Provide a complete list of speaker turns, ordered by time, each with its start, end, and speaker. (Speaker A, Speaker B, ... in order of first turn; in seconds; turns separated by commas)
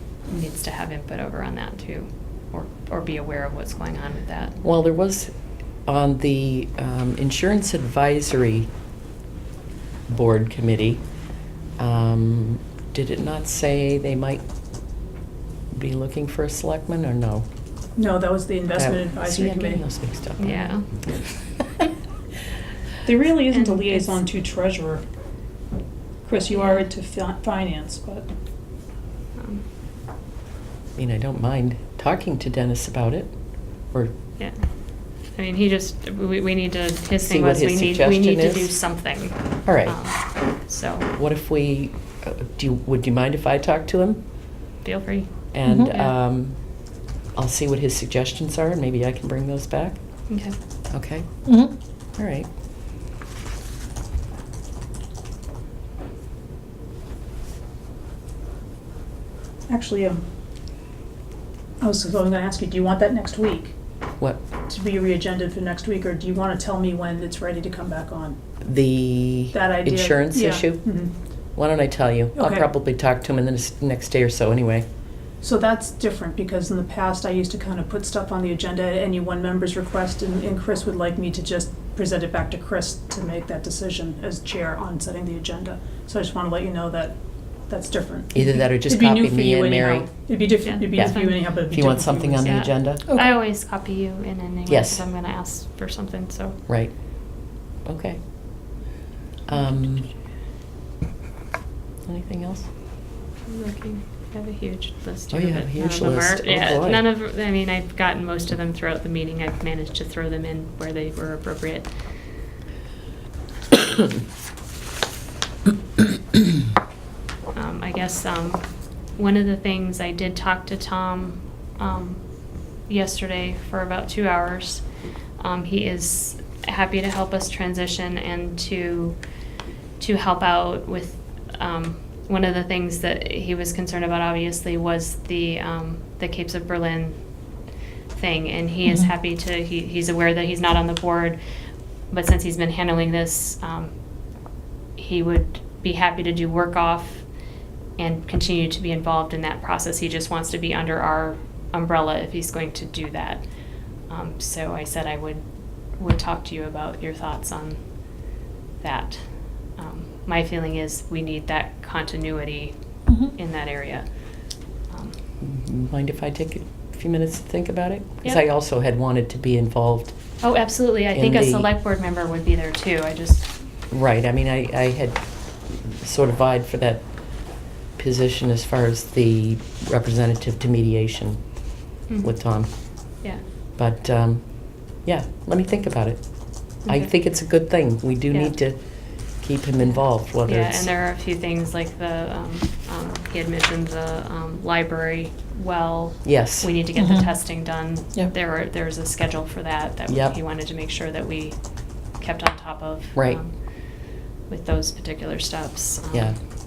Speaker A: 0.3-4.5, Speaker B: 4.6-5.3, Speaker B: 5.9-8.7, Speaker B: 10.1-11.0, Speaker B: 11.8-14.4, Speaker B: 15.7-17.4, Speaker C: 17.9-19.8, Speaker B: 18.7-21.9, Speaker A: 20.4-20.9, Speaker C: 23.0-25.0, Speaker A: 23.5-24.2, Speaker C: 26.2-28.3, Speaker A: 26.5-26.8, Speaker A: 29.4-29.6, Speaker B: 31.0-33.3, Speaker A: 35.3-41.1, Speaker B: 37.2-38.7, Speaker B: 39.6-40.0, Speaker B: 41.1-44.2, Speaker A: 44.8-45.3, Speaker B: 45.5-46.6, Speaker D: 45.6-45.9, Speaker A: 45.9-46.1, Speaker B: 47.3-50.0, Speaker A: 50.3-50.5, Speaker B: 50.9-51.4, Speaker D: 51.5-51.7, Speaker B: 52.2-52.5, Speaker C: 59.7-60.2, Speaker C: 61.8-63.7, Speaker C: 64.7-68.4, Speaker B: 68.6-70.9, Speaker C: 69.5-71.1, Speaker B: 71.5-74.8, Speaker C: 72.3-72.7, Speaker C: 75.4-87.2, Speaker C: 87.7-92.5, Speaker B: 88.3-90.3, Speaker A: 90.6-91.4, Speaker B: 90.9-93.0, Speaker A: 92.4-96.6, Speaker D: 93.0-93.3, Speaker B: 94.7-95.0, Speaker B: 97.8-98.2, Speaker B: 99.5-100.1, Speaker A: 99.5-99.9, Speaker B: 102.0-102.7, Speaker A: 103.5-112.0, Speaker B: 105.3-107.1, Speaker A: 117.5-118.6, Speaker A: 119.2-122.2, Speaker A: 122.9-124.8, Speaker A: 125.4-129.2, Speaker A: 130.0-137.2, Speaker A: 138.1-141.4, Speaker D: 138.8-139.1, Speaker A: 142.1-143.9, Speaker A: 145.0-147.2, Speaker A: 148.0-153.4, Speaker A: 154.1-155.4, Speaker A: 156.0-157.8, Speaker A: 158.8-159.2, Speaker A: 159.8-164.0, Speaker D: 163.1-163.3, Speaker A: 164.9-165.1, Speaker B: 165.4-170.1, Speaker A: 170.4-173.5, Speaker B: 171.1-171.7, Speaker B: 173.9-177.1, Speaker B: 178.0-181.5, Speaker A: 182.1-182.4, Speaker B: 182.2-190.9, Speaker A: 186.8-187.1, Speaker A: 188.3-188.6, Speaker A: 190.4-201.6, Speaker B: 196.2-196.7, Speaker D: 196.9-197.4, Speaker B: 200.1-200.3, Speaker A: 202.2-203.5, Speaker A: 204.5-206.3, Speaker B: 206.1-206.3